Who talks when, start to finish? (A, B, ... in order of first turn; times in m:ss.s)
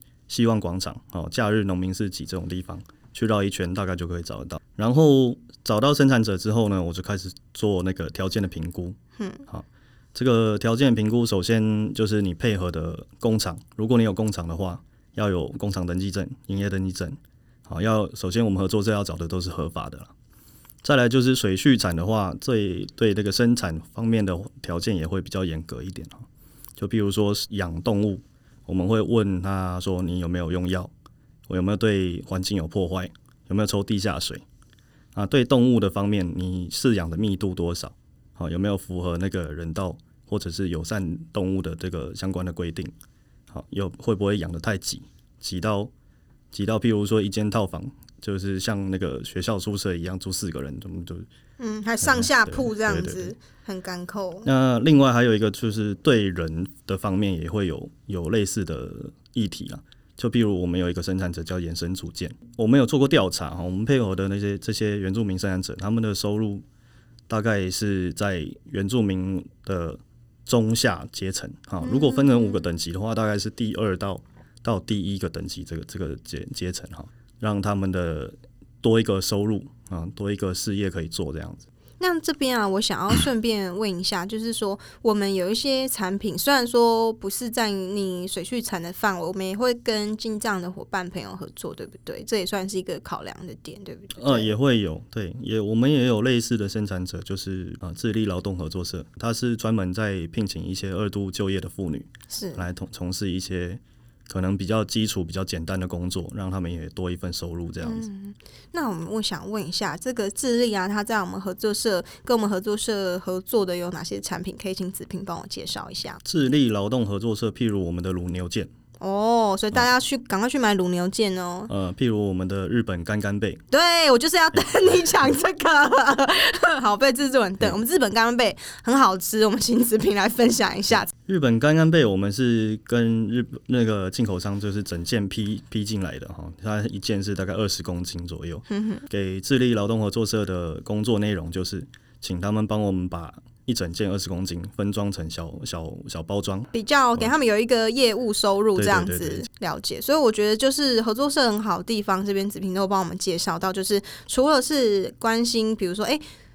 0:00.3-0:20.1 A
0:09.2-0:09.4 B
0:20.8-0:26.2 A
0:26.8-0:30.9 A
0:31.5-0:34.4 A
0:35.1-0:42.9 A
0:43.5-0:45.9 A
0:46.5-0:51.3 A
0:51.6-0:54.4 B
0:52.0-0:53.3 A
0:54.4-1:06.6 A
1:07.3-1:21.6 A
1:11.8-1:12.6 B
1:22.0-1:34.5 B
1:34.2-1:48.0 A
1:42.3-1:42.6 B
1:47.8-1:56.2 B
1:56.2-1:58.7 A
1:59.0-2:01.7 B
2:01.7-2:03.6 A
2:03.7-2:11.1 B
2:11.3-2:27.3 A
2:18.7-2:19.0 B
2:26.7-2:36.2 B
2:28.8-2:29.4 A